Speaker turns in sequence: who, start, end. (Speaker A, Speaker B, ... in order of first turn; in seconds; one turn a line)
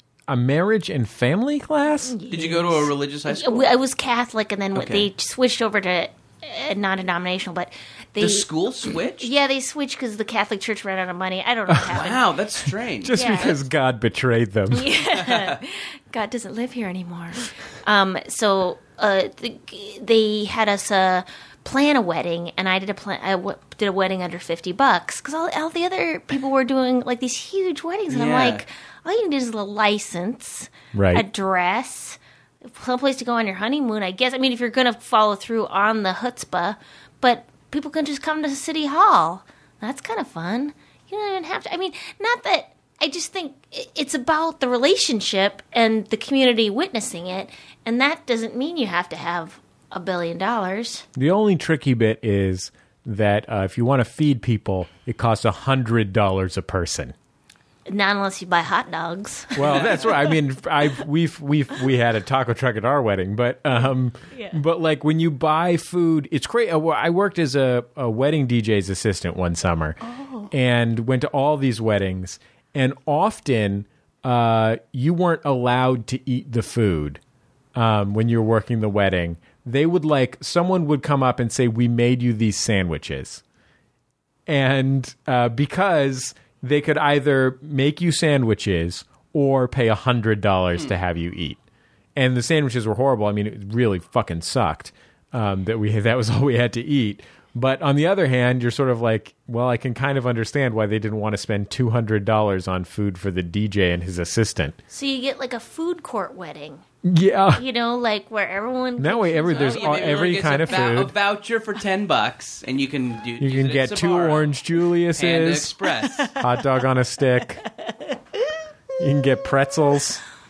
Speaker A: 0.3-2.2
Speaker B: 2.0-12.2
Speaker C: 2.3-3.7
Speaker C: 4.8-5.1
Speaker C: 8.2-9.3
Speaker A: 11.7-12.1
Speaker C: 11.9-13.6
Speaker A: 13.0-14.9
Speaker B: 13.1-13.6
Speaker B: 14.7-51.1
Speaker C: 15.1-15.6
Speaker C: 28.1-28.6
Speaker A: 30.9-31.2
Speaker A: 51.2-57.1
Speaker B: 57.9-59.9
Speaker A: 59.6-70.0
Speaker C: 59.6-60.2
Speaker B: 64.3-64.6
Speaker B: 70.0-70.5
Speaker A: 70.5-77.2
Speaker A: 77.8-83.4
Speaker A: 84.5-91.6
Speaker A: 92.2-104.8
Speaker B: 104.9-106.8
Speaker A: 107.0-107.6
Speaker B: 107.5-110.5
Speaker A: 109.0-111.1
Speaker C: 109.5-114.5
Speaker A: 113.4-115.8
Speaker C: 115.1-116.3
Speaker B: 116.1-116.4
Speaker A: 116.4-117.6
Speaker B: 117.7-118.6
Speaker A: 119.0-120.2